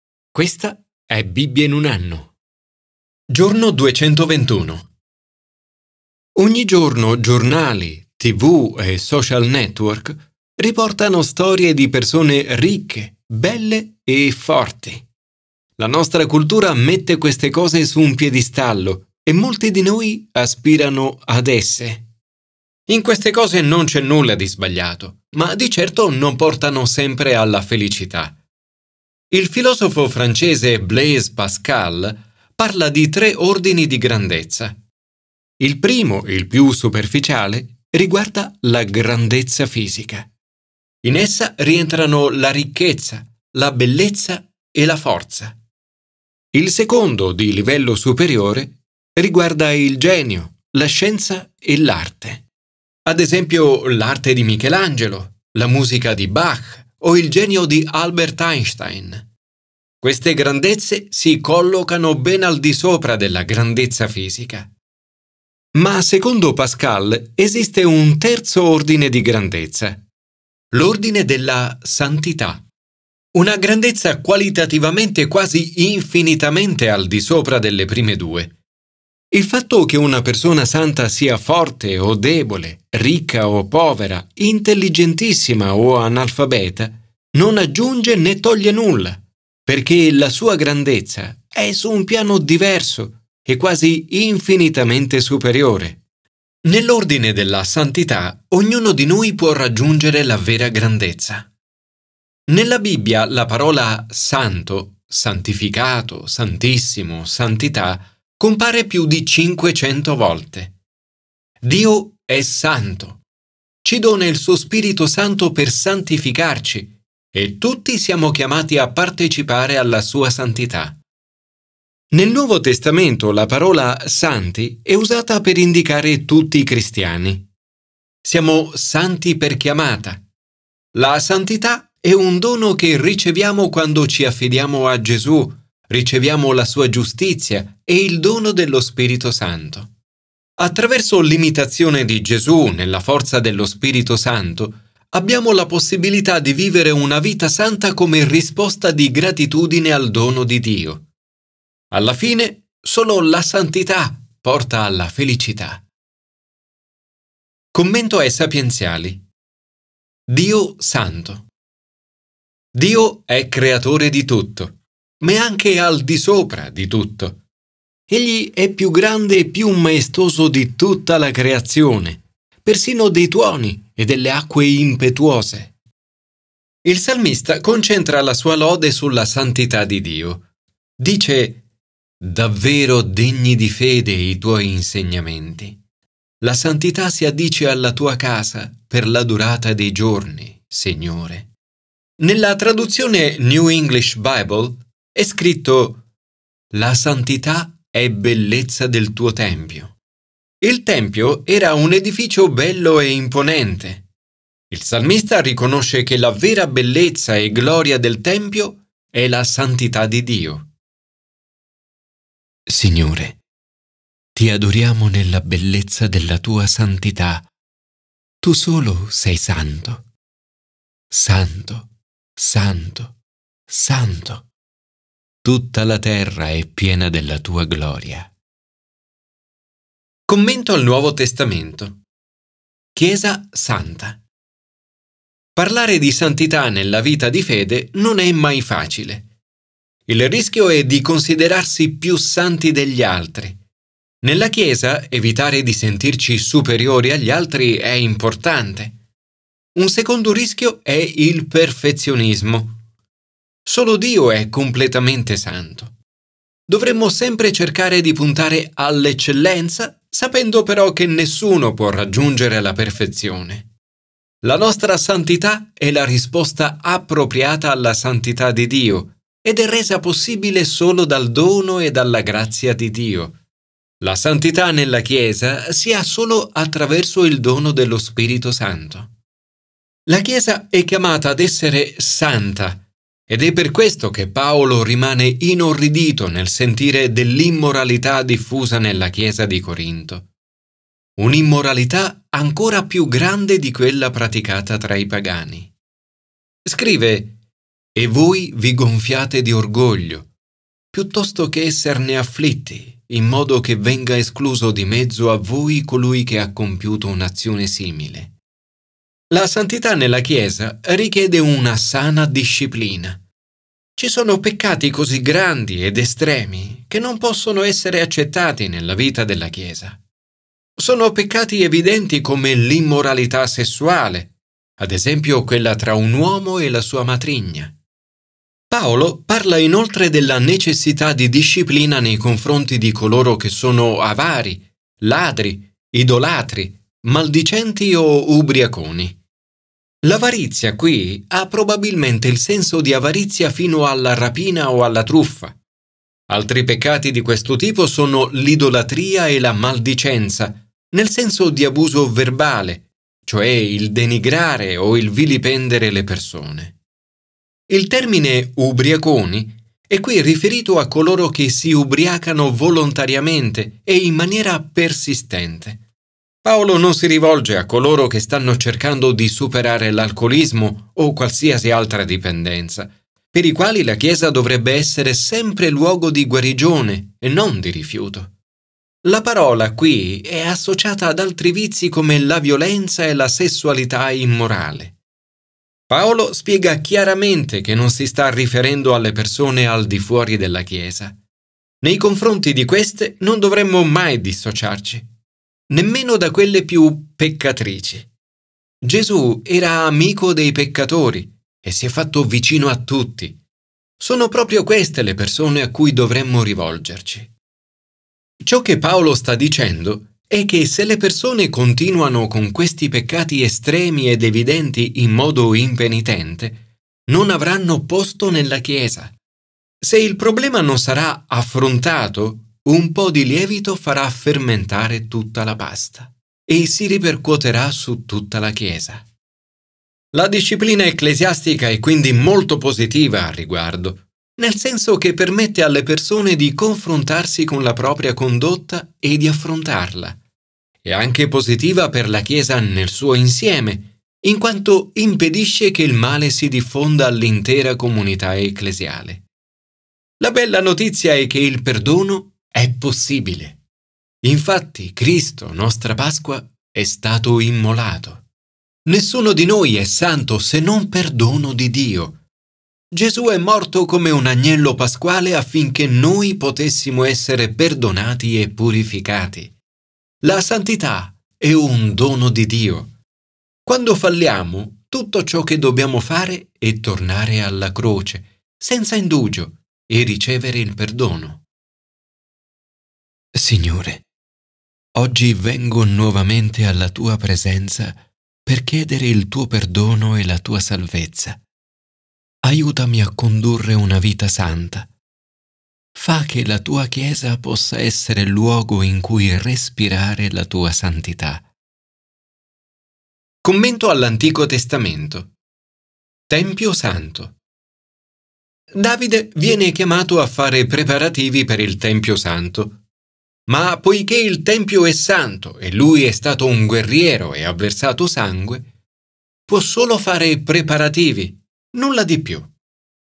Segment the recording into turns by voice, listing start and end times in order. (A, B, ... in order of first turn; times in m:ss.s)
0:00.3-0:02.3 A
0:03.3-0:04.9 A
0:06.4-0:15.1 A
0:15.8-0:22.0 A
0:22.9-0:28.4 A
0:29.3-0:34.8 A
0:35.6-0:40.3 A
0:41.0-0:45.6 A
0:46.5-0:52.4 A
0:53.1-0:59.2 A
1:00.0-1:04.7 A
1:05.8-1:10.0 A
1:10.7-1:12.6 A
1:13.3-1:18.5 A
1:19.3-1:36.0 A
1:36.6-1:41.5 A
1:42.5-1:50.7 A
1:51.6-1:53.2 A
1:53.8-2:01.0 A
2:02.1-2:07.5 A
2:08.2-2:10.2 A
2:10.9-2:19.9 A
2:20.6-2:31.0 A
2:31.9-2:35.8 A
2:37.7-2:39.2 A
2:40.3-2:41.5 A
2:42.7-2:47.4 A
2:48.1-2:55.7 A
2:56.8-3:00.4 A
3:01.0-3:01.6 A
3:02.2-3:05.8 A
3:06.4-3:11.5 A
3:12.2-3:16.0 A
3:16.7-3:20.0 A
3:20.6-3:24.0 A
3:24.7-3:30.7 A
3:32.7-3:33.4 A
3:34.4-3:37.5 A
3:38.4-3:40.0 A
3:41.1-3:43.2 A
3:43.7-3:44.5 A
3:45.4-3:48.3 A
3:50.3-3:52.0 A
3:53.0-3:54.2 A
3:55.6-3:59.3 A
4:00.1-4:03.6 A
4:04.2-4:09.0 A
4:09.8-4:12.8 A
4:13.6-4:16.0 A
4:16.7-4:23.7 A
4:24.4-4:33.4 A
4:34.0-4:39.1 A
4:40.1-4:50.3 A
4:51.2-4:55.7 A
4:56.6-4:57.3 A
4:58.0-5:00.3 A
5:00.9-5:08.3 A
5:09.3-5:13.2 A
5:14.0-5:20.0 A
5:20.8-5:27.8 A
5:28.7-5:39.2 A
5:40.0-5:45.6 A
5:46.3-5:56.8 A
5:57.7-6:05.8 A
6:06.4-6:18.3 A
6:19.0-6:25.0 A
6:25.9-6:31.2 A
6:31.8-6:35.1 A
6:35.7-6:38.1 A
6:38.8-6:43.4 A
6:44.0-6:47.3 A
6:48.4-6:59.2 A
6:59.8-7:09.0 A
7:10.1-7:20.2 A
7:20.8-7:29.2 A
7:30.2-7:33.6 A
7:34.2-7:38.2 A
7:38.8-7:42.2 A
7:42.9-7:49.6 A
7:50.2-7:52.9 A
7:53.7-8:01.4 A
8:03.4-8:04.0 A
8:05.0-8:11.4 A
8:12.4-8:14.9 A
8:15.9-8:21.5 A
8:23.4-8:25.3 A
8:26.3-8:27.4 A
8:28.7-8:32.8 A
8:33.5-8:38.7 A
8:39.5-8:42.5 A